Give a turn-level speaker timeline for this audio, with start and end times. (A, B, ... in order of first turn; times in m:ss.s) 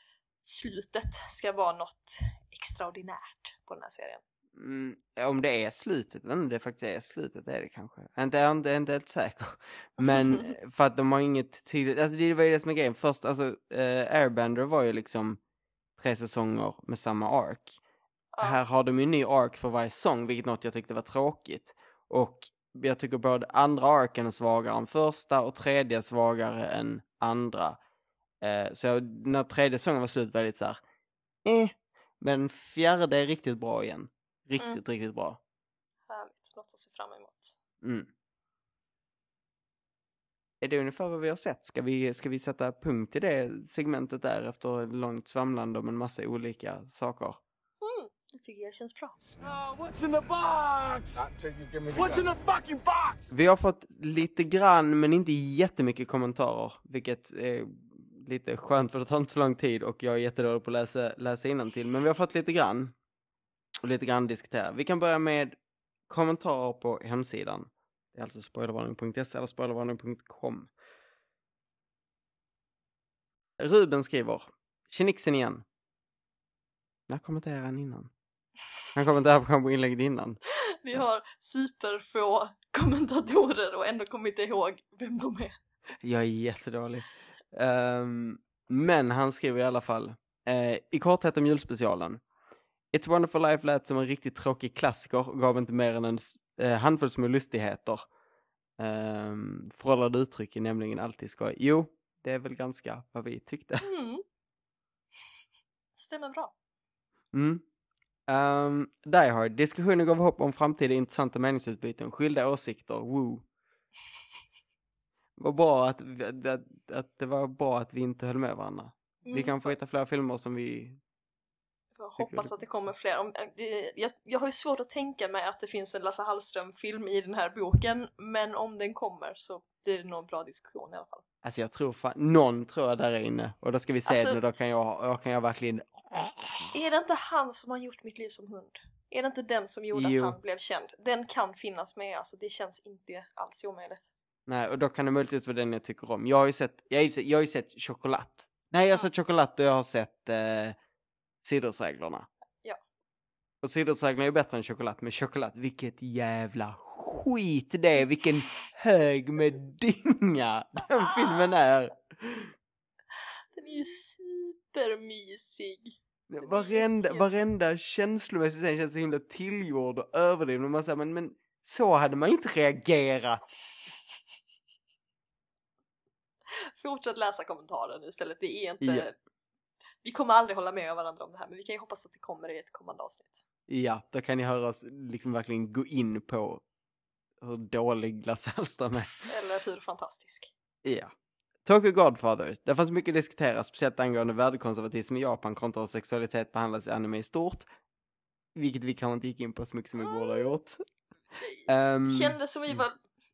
0:00.4-0:04.2 A
0:04.5-0:15.4 B
0:10.0-0:10.5 A
0:16.0-0:17.8 B
0:18.3-0:18.6 A
0:18.4-0:27.8 B
0:28.4-0:30.8 B
0:31.4-0:35.4 B
0:36.1-0:37.6 A
0:37.8-0:38.1 B
0:40.6-0:47.4 B
0:47.8-0:49.1 A
0:49.3-0:53.3 C
0:53.3-1:03.0 B
1:03.8-1:05.6 B
1:06.1-1:10.7 B
1:13.6-1:15.6 B
1:17.1-1:18.1 B
1:18.9-1:20.4 B
1:20.8-1:25.6 A
1:26.0-1:32.2 B
1:32.9-1:38.1 B
1:38.8-1:43.9 B
1:43.8-1:44.2 A
1:45.9-1:46.5 A
1:47.3-1:47.6 B
1:48.3-1:53.4 B
1:55.4-2:01.0 B
1:59.2-1:59.7 A
2:02.0-2:11.2 A
2:02.2-2:02.5 B
2:11.4-2:16.7 B
2:14.1-2:14.4 A
2:16.7-2:24.1 A
2:19.9-2:20.4 B
2:24.5-2:30.8 B
2:31.4-2:32.3 B
2:33.6-2:42.5 B
2:43.5-2:47.3 A
2:46.3-2:53.6 B
2:56.8-2:59.1 A
2:58.8-2:59.1 B
3:00.0-3:03.4 A
3:03.7-3:06.6 B
3:07.4-3:09.3 B
3:09.2-3:10.5 A
3:10.8-3:11.1 B
3:11.6-3:17.7 B
3:18.5-3:20.8 B
3:20.0-3:20.5 A
3:21.4-3:23.1 A
3:21.7-3:22.8 B